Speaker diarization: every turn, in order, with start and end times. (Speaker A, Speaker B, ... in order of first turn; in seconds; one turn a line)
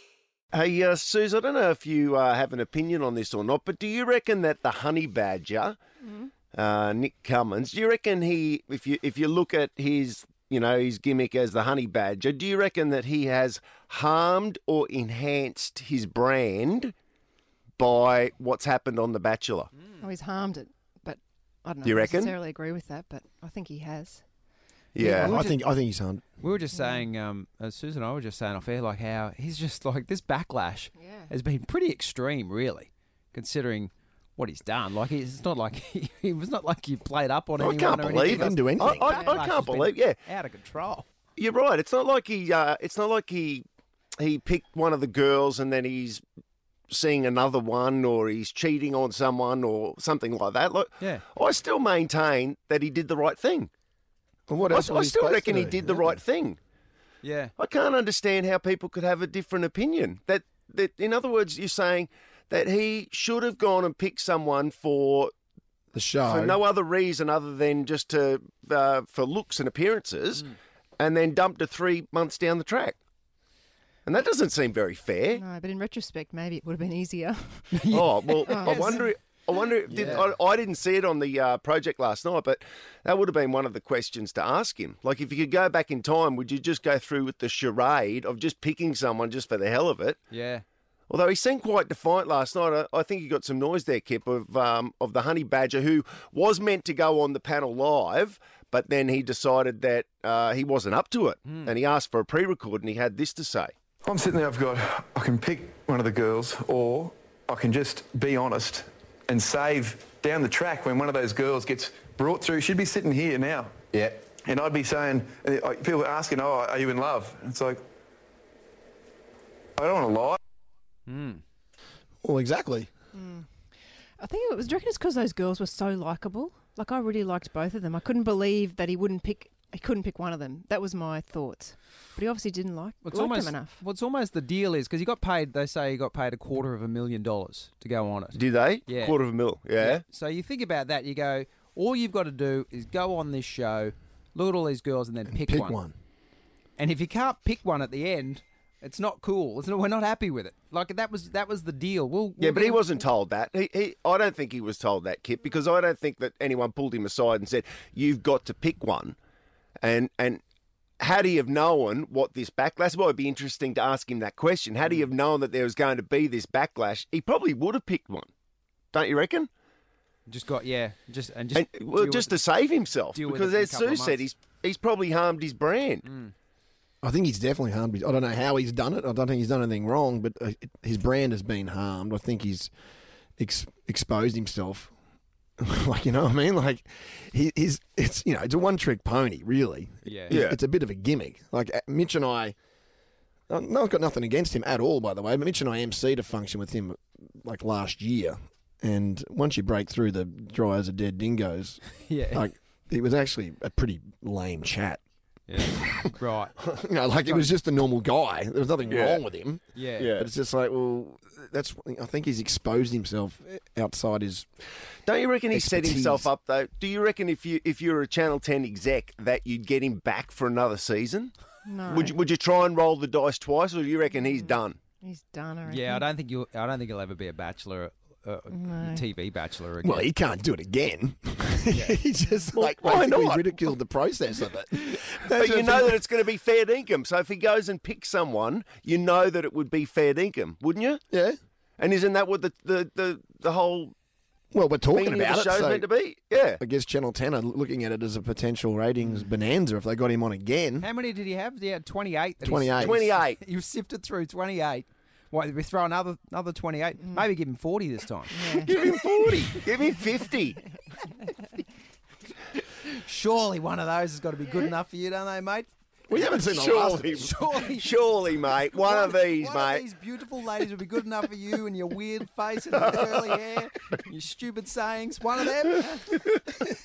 Speaker A: 0.5-5.8
Speaker B: 6.0-6.3
Speaker A: 6.5-16.9
Speaker A: 17.8-19.7
Speaker B: 20.0-24.2
Speaker A: 21.8-22.3
Speaker A: 24.9-25.4
Speaker B: 25.0-25.3
Speaker C: 25.1-26.2
Speaker D: 25.2-25.6
Speaker D: 26.4-41.1
Speaker B: 26.7-27.1
Speaker B: 31.0-31.3
Speaker A: 37.6-40.2
Speaker C: 38.2-39.1
Speaker B: 39.1-39.5
Speaker A: 41.4-43.6
Speaker A: 44.2-46.2
Speaker A: 46.9-53.7
Speaker C: 54.5-56.2
Speaker A: 54.6-56.6
Speaker D: 57.2-57.5
Speaker A: 57.6-65.3
Speaker C: 65.9-66.6
Speaker A: 66.3-73.0
Speaker A: 74.0-75.4
Speaker B: 75.3-77.8
Speaker D: 77.7-79.1
Speaker A: 77.9-90.2
Speaker C: 79.9-80.3
Speaker D: 79.9-80.3
Speaker D: 90.3-90.6
Speaker A: 91.1-103.7
Speaker D: 101.5-101.7
Speaker E: 104.0-117.8
Speaker E: 119.8-120.4
Speaker D: 121.1-121.4
Speaker C: 122.2-122.9
Speaker B: 123.1-123.5
Speaker B: 124.2-133.8
Speaker D: 133.0-139.2
Speaker A: 138.3-140.0
Speaker D: 139.8-145.8
Speaker C: 145.3-146.0
Speaker D: 146.8-153.1
Speaker A: 152.4-159.2
Speaker A: 159.8-160.4
Speaker A: 161.0-168.3
Speaker A: 168.9-169.5
Speaker D: 170.3-172.4
Speaker A: 171.5-176.1
Speaker D: 173.1-174.3
Speaker D: 176.1-176.3
Speaker C: 177.0-182.7
Speaker C: 183.4-184.9
Speaker C: 185.6-192.6
Speaker D: 190.1-190.4
Speaker A: 190.3-190.6
Speaker C: 193.5-205.0
Speaker D: 202.0-202.5
Speaker D: 205.5-206.5
Speaker C: 205.6-214.5
Speaker D: 207.2-207.5
Speaker E: 208.9-209.2
Speaker D: 209.7-210.1
Speaker A: 210.0-210.3
Speaker A: 215.1-221.3
Speaker C: 215.5-216.3
Speaker B: 221.7-222.2
Speaker A: 221.9-224.8
Speaker B: 224.1-226.1
Speaker D: 225.7-230.2
Speaker B: 228.5-229.0
Speaker C: 229.8-236.0
Speaker D: 231.7-232.0
Speaker A: 232.6-233.8
Speaker A: 235.3-241.0
Speaker C: 241.1-241.4
Speaker A: 241.8-243.9
Speaker C: 244.5-245.9
Speaker A: 244.9-246.6
Speaker C: 246.6-250.9
Speaker D: 250.8-258.6
Speaker C: 252.4-253.0
Speaker A: 252.8-253.4
Speaker B: 258.3-258.7
Speaker A: 258.4-260.6
Speaker D: 262.8-268.0
Speaker C: 266.1-267.3
Speaker A: 266.3-269.8
Speaker D: 268.6-276.3